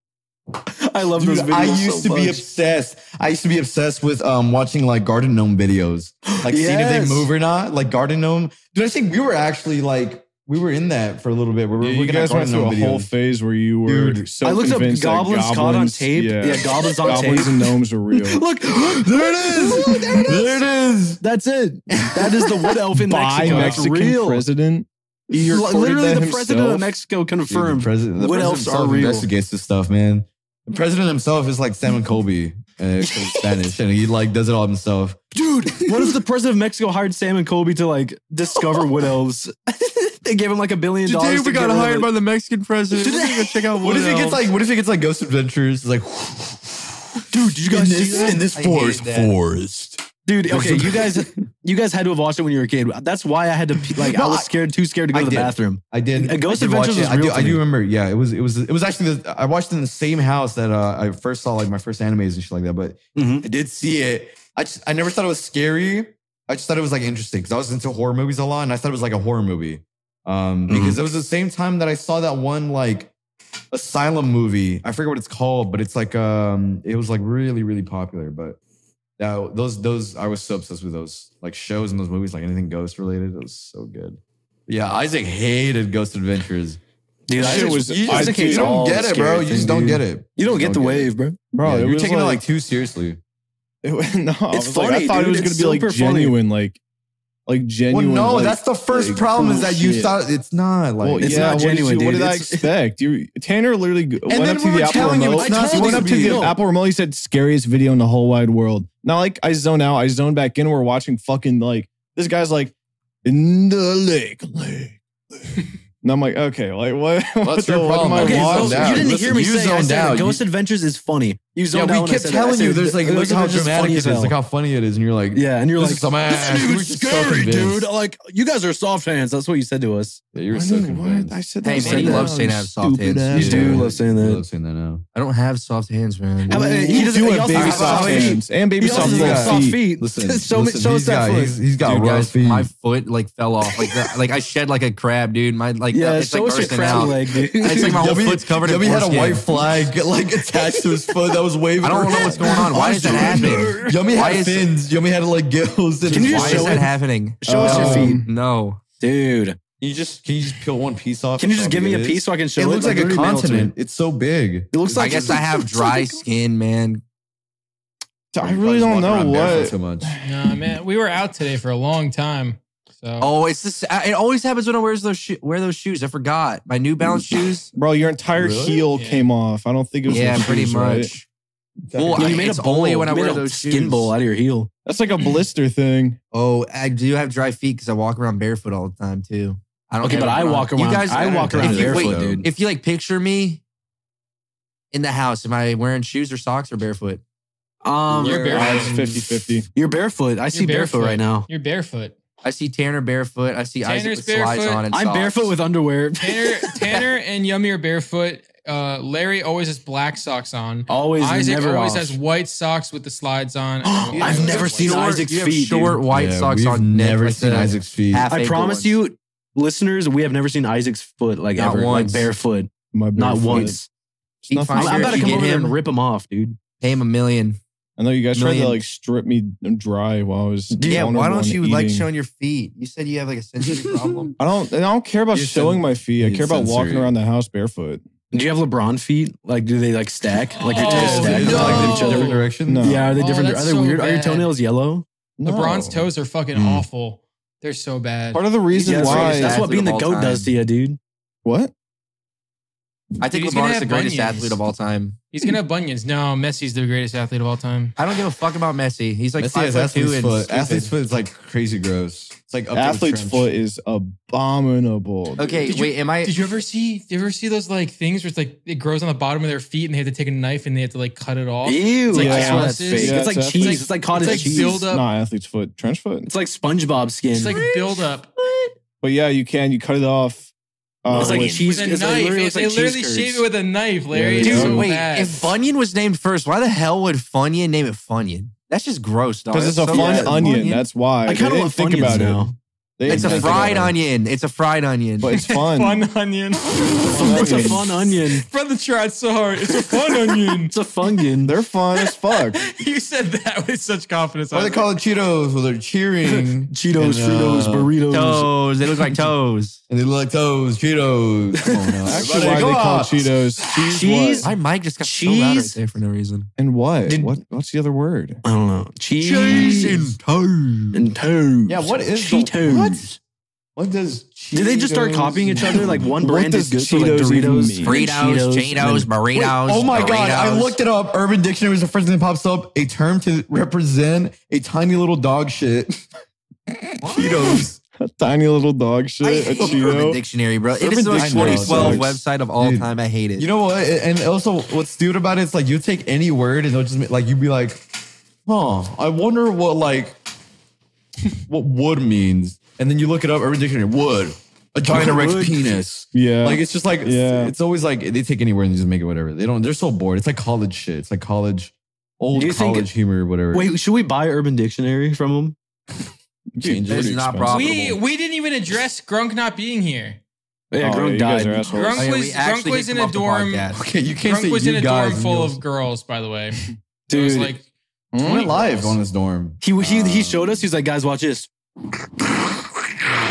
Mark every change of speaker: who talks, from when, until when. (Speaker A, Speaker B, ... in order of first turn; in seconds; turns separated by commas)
Speaker A: 0.8-2.4, Speaker B: 1.2-13.1, Speaker A: 6.3-7.3, Speaker C: 11.8-18.4, Speaker B: 13.8-14.3, Speaker A: 14.4-20.6, Speaker B: 18.8-21.2, Speaker A: 21.2-24.4, Speaker B: 21.9-22.5, Speaker C: 22.9-26.9, Speaker D: 23.4-23.8, Speaker A: 25.3-29.3, Speaker B: 27.5-36.0, Speaker A: 35.6-42.1, Speaker E: 41.0-44.4, Speaker A: 42.9-43.6, Speaker B: 43.8-51.3, Speaker A: 47.3-48.4, Speaker E: 48.5-49.3, Speaker A: 50.2-57.6, Speaker B: 53.9-54.5, Speaker B: 55.1-73.1, Speaker A: 63.1-63.4, Speaker A: 70.7-71.0, Speaker B: 73.7-78.6, Speaker B: 79.2-86.8, Speaker A: 87.3-91.4, Speaker C: 87.3-88.9, Speaker B: 87.4-91.1, Speaker C: 91.5-92.4, Speaker B: 91.6-93.2, Speaker C: 93.8-96.8, Speaker A: 94.5-96.4, Speaker C: 97.5-100.1, Speaker B: 97.9-101.6, Speaker C: 101.0-119.2, Speaker A: 101.2-102.7, Speaker B: 104.3-106.4, Speaker A: 105.0-106.6, Speaker B: 117.4-120.4, Speaker A: 118.1-124.3, Speaker B: 121.7-127.9, Speaker A: 125.3-130.2, Speaker B: 130.3-131.9, Speaker C: 130.5-133.9, Speaker E: 131.6-133.4, Speaker A: 131.7-132.3, Speaker A: 133.3-134.4, Speaker B: 133.3-135.0, Speaker E: 135.1-138.3, Speaker C: 136.5-139.9, Speaker A: 136.5-141.6, Speaker B: 137.5-142.7, Speaker E: 141.8-149.5, Speaker A: 145.9-148.1, Speaker B: 146.5-156.9, Speaker E: 151.8-154.7, Speaker C: 152.2-153.7, Speaker A: 152.5-153.9, Speaker A: 156.1-156.9, Speaker E: 156.1-158.8, Speaker C: 157.4-158.3, Speaker A: 157.5-158.2, Speaker B: 157.6-158.0, Speaker A: 159.0-159.6, Speaker B: 159.8-165.4, Speaker A: 161.4-163.7, Speaker A: 164.7-166.2, Speaker E: 164.9-167.0, Speaker C: 168.3-170.3, Speaker B: 168.4-170.1, Speaker D: 170.2-173.3, Speaker E: 173.2-177.7, Speaker C: 177.7-181.1, Speaker B: 178.3-178.8, Speaker D: 178.9-179.3, Speaker E: 180.1-181.3, Speaker B: 181.9-182.5, Speaker E: 181.9-184.1, Speaker A: 182.2-184.7, Speaker C: 184.8-186.2, Speaker E: 186.3-193.6, Speaker A: 190.0-192.4, Speaker B: 191.5-192.5, Speaker E: 194.9-197.2, Speaker A: 197.8-199.2, Speaker B: 198.1-199.1, Speaker D: 198.2-199.0, Speaker C: 198.4-199.7, Speaker A: 199.7-201.5, Speaker D: 200.5-202.1, Speaker E: 202.4-205.5, Speaker D: 203.8-204.8, Speaker A: 204.9-207.1, Speaker D: 206.2-215.2, Speaker A: 210.9-212.2, Speaker A: 213.8-216.0, Speaker B: 214.1-214.8, Speaker E: 214.4-219.0, Speaker B: 216.1-218.3, Speaker A: 218.2-223.9, Speaker E: 221.6-222.3, Speaker C: 222.9-223.8, Speaker C: 224.4-225.4, Speaker E: 224.5-225.8, Speaker A: 224.7-226.6, Speaker E: 226.8-227.6, Speaker C: 228.0-232.1, Speaker E: 228.3-228.8, Speaker A: 230.7-231.1, Speaker E: 230.9-234.3, Speaker C: 234.4-238.0, Speaker B: 235.3-237.1, Speaker A: 238.3-245.0, Speaker D: 240.6-244.5, Speaker B: 240.8-243.0, Speaker C: 241.4-241.9, Speaker C: 242.6-243.0, Speaker C: 245.4-246.1, Speaker D: 245.4-248.4, Speaker C: 248.3-249.6, Speaker A: 248.7-251.0, Speaker E: 248.9-250.5, Speaker C: 251.4-251.7, Speaker E: 253.2-255.2, Speaker D: 253.2-254.6, Speaker D: 255.3-257.9, Speaker E: 257.9-260.9, Speaker B: 259.4-263.5, Speaker C: 262.7-265.7, Speaker E: 265.4-266.3, Speaker D: 265.7-275.1, Speaker A: 271.6-274.9, Speaker C: 272.1-276.3, Speaker A: 276.3-278.7, Speaker D: 277.3-278.3, Speaker C: 279.0-280.5, Speaker C: 281.0-281.7, Speaker A: 281.1-283.4, Speaker E: 281.1-281.5, Speaker D: 281.2-285.5, Speaker C: 284.1-284.9, Speaker A: 284.3-285.0, Speaker E: 284.4-290.7, Speaker C: 289.5-293.9, Speaker A: 289.9-292.5, Speaker B: 293.0-293.9, Speaker E: 293.1-295.4, Speaker C: 295.2-296.0, Speaker D: 295.3-300.7, Speaker C: 297.0-297.9, Speaker A: 297.1-298.4, Speaker A: 299.8-301.6, Speaker C: 301.4-302.6, Speaker D: 301.9-304.8, Speaker B: 304.5-307.9, Speaker A: 306.3-308.5, Speaker E: 308.1-309.8, Speaker B: 309.9-313.3, Speaker A: 311.8-312.6, Speaker C: 312.0-314.5, Speaker A: 313.6-314.5, Speaker E: 314.4-316.5, Speaker A: 315.0-315.8, Speaker C: 316.6-318.4, Speaker A: 317.1-317.3, Speaker A: 318.4-320.1, Speaker E: 319.2-321.0, Speaker A: 320.9-323.1, Speaker B: 321.7-323.1, Speaker B: 323.8-326.1, Speaker A: 324.5-329.1, Speaker C: 325.6-328.0, Speaker E: 327.8-330.8, Speaker B: 329.3-336.0, Speaker B: 337.1-337.8, Speaker C: 337.1-340.2, Speaker E: 339.2-343.5, Speaker C: 340.8-342.2, Speaker B: 341.1-347.9, Speaker B: 348.4-350.2, Speaker B: 351.5-363.7, Speaker A: 354.9-355.8, Speaker C: 356.1-357.5, Speaker A: 362.3-362.9, Speaker A: 363.5-365.6, Speaker C: 366.5-367.1, Speaker B: 366.6-368.0, Speaker E: 366.9-367.9, Speaker D: 367.5-370.2, Speaker A: 370.7-372.0, Speaker C: 370.8-372.1, Speaker D: 371.7-373.7, Speaker E: 371.9-373.8, Speaker B: 373.7-375.6, Speaker D: 374.2-377.6, Speaker A: 377.1-377.5, Speaker C: 378.1-379.0, Speaker B: 378.2-380.6, Speaker A: 379.6-381.5